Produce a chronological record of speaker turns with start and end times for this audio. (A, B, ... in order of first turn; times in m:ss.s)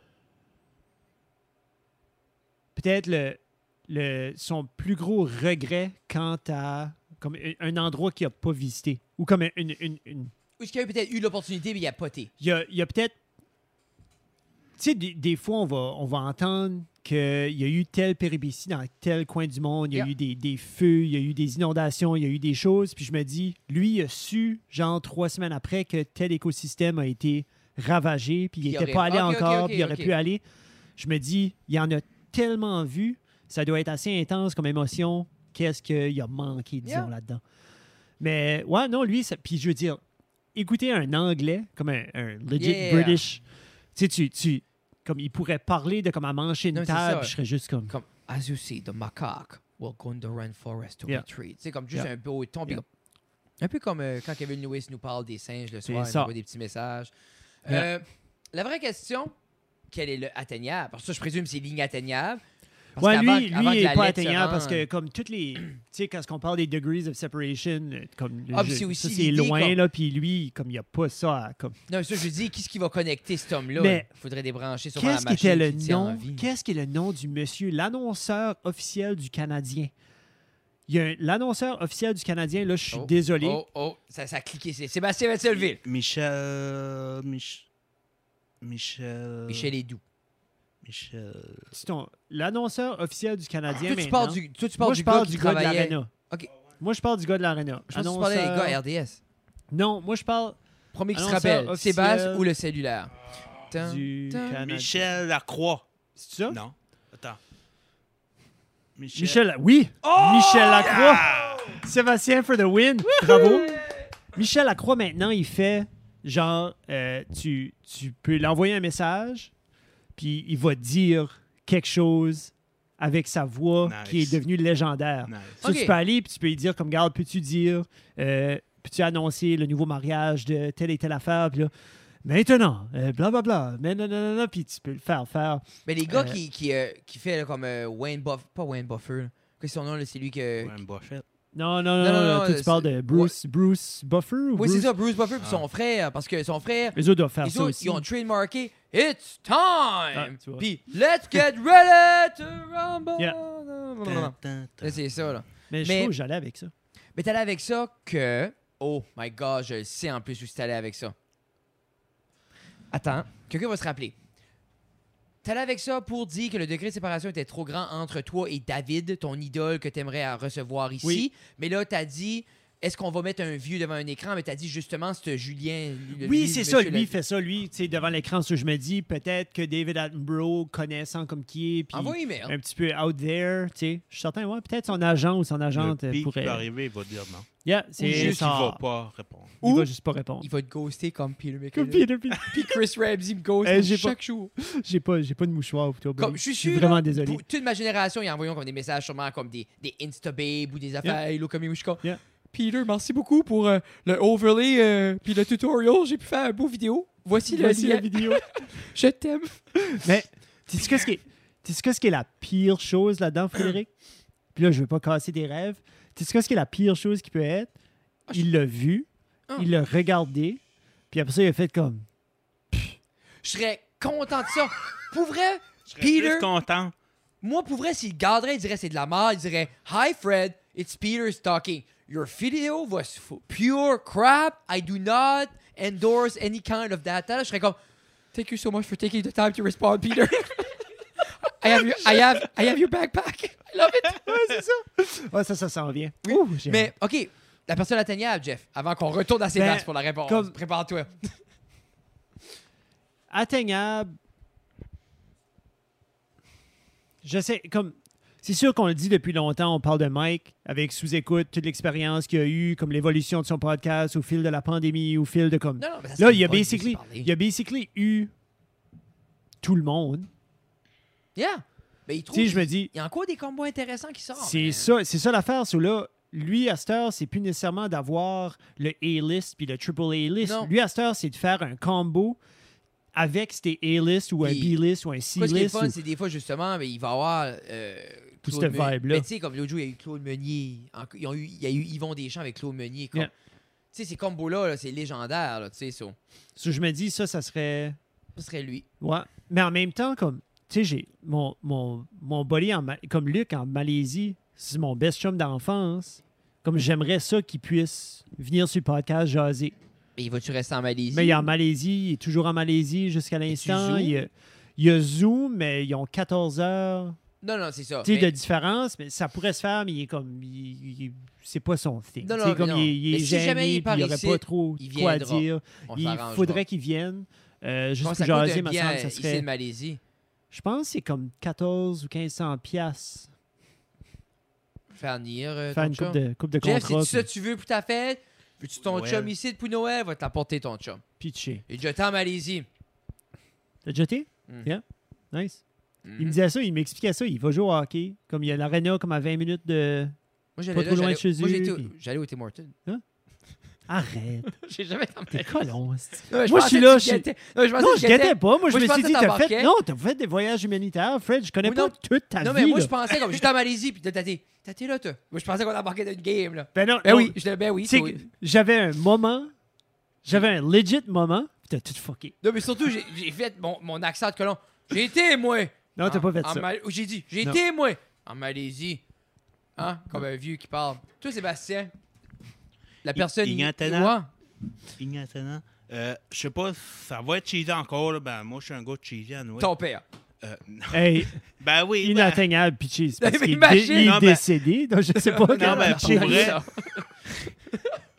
0:02.7-0:10.3 A
0:10.6-0:12.3 B
0:12.4-0:13.2 A
0:14.8-0:30.4 A
0:28.6-0:30.1 B
0:31.0-0:37.4 A
0:36.8-0:37.1 B
0:38.2-0:40.0 A
0:40.5-0:43.4 A
0:42.6-0:43.2 B
0:43.9-0:47.9 A
0:46.7-0:47.3 B
0:47.9-0:52.8 B
0:53.6-0:57.1 B
0:55.9-0:56.3 A
0:57.6-0:59.3 B
0:59.9-1:02.4 B
1:03.0-1:04.8 B
1:03.0-1:11.8 A
1:08.5-1:09.8 B
1:11.9-1:16.5 B
1:13.7-1:14.1 A
1:15.0-1:19.9 A
1:20.9-1:23.6 A
1:22.9-1:25.8 B
1:25.8-1:27.6 C
1:28.6-1:29.7 C
1:29.5-1:30.0 B
1:30.8-1:31.7 C
1:31.7-1:36.1 A
1:33.7-1:36.5 B
1:36.8-1:38.8 A
1:37.9-1:39.2 B
1:39.7-1:40.6 A
1:40.9-1:43.1 B
1:41.1-1:42.5 A
1:43.7-1:44.6 B
1:43.7-1:45.1 A
1:44.6-1:45.8 C
1:46.2-1:46.6 A
1:46.5-1:47.4 C
1:49.0-1:49.4 C
1:49.1-1:59.5 A
1:50.0-1:51.8 B
1:50.8-1:51.8 C
1:53.2-1:54.1 B
2:00.1-2:11.7 A
2:03.8-2:04.4 C
2:05.3-2:05.6 C
2:05.6-2:05.9 B
2:12.2-2:16.4 A
2:15.8-2:20.7 B
2:20.6-2:21.2 C
2:21.5-2:24.9 A
2:22.0-2:23.4 B
2:24.6-2:36.1 B
2:26.9-2:28.0 A
2:30.1-2:30.6 A
2:34.0-2:35.0 C
2:35.7-2:36.7 A
2:37.1-2:41.1 B
2:42.9-2:44.1 B
2:45.4-2:57.1 B
2:56.2-3:06.6 A
3:01.9-3:02.5 B
3:05.7-3:07.5 C
3:07.6-3:08.8 A
3:08.0-3:08.4 B
3:08.0-3:09.6 C
3:09.6-3:09.9 B
3:09.6-3:10.5 A
3:10.4-3:14.5 B
3:11.7-3:12.8 A
3:13.6-3:17.4 A
3:16.2-3:29.6 B
3:27.4-3:28.4 A
3:29.8-3:33.9 A
3:34.5-3:37.7 A
3:38.3-3:42.1 A
3:43.4-3:46.5 B
3:45.9-3:46.9 C
3:47.4-3:57.8 B
3:58.3-4:04.4 B
4:04.2-4:06.9 A
4:06.2-4:11.3 B
4:09.5-4:10.5 A
4:13.3-4:14.1 A
4:17.2-4:28.3 A
4:25.8-4:27.3 B
4:29.6-4:30.3 A
4:31.4-4:34.9 B
4:32.3-4:32.9 A
4:34.4-4:42.4 A
4:40.4-4:40.7 B
4:43.1-4:46.0 A
4:44.4-4:44.8 B
4:45.3-4:53.3 B
4:48.4-4:49.3 A
4:53.9-4:56.2 B
4:56.6-4:58.0 A
4:58.4-4:58.8 B
4:59.0-5:09.7 A
5:10.2-5:11.5 B
5:11.1-5:17.2 A
5:13.5-5:14.2 B
5:17.4-5:18.3 B
5:18.0-5:29.4 A
5:22.2-5:26.6 B
5:28.0-5:30.0 B
5:30.5-5:33.3 A
5:34.9-5:41.0 B
5:35.7-5:37.3 A
5:38.8-5:39.3 C
5:41.2-5:41.6 A
5:41.7-5:42.7 B
5:43.8-5:45.6 A
5:46.0-5:46.4 B
5:46.2-5:50.1 A
5:50.6-5:52.7 B
5:50.7-5:51.9 A
5:53.9-5:54.5 A
5:54.5-5:55.7 B
5:55.3-6:02.9 A
5:56.3-5:59.7 B
6:01.6-6:08.3 B
6:06.7-6:09.5 A
6:10.2-6:12.4 A
6:12.4-6:19.0 B
6:16.0-6:16.7 A
6:19.8-6:21.9 B
6:23.0-6:24.3 B
6:23.1-6:24.2 C
6:25.0-6:29.7 C
6:29.6-6:30.0 B
6:30.4-6:32.4 C
6:30.9-6:31.4 A
6:32.0-6:36.6 A
6:33.2-6:34.2 B
6:33.9-6:34.4 C
6:35.1-6:37.9 B
6:35.5-6:36.6 C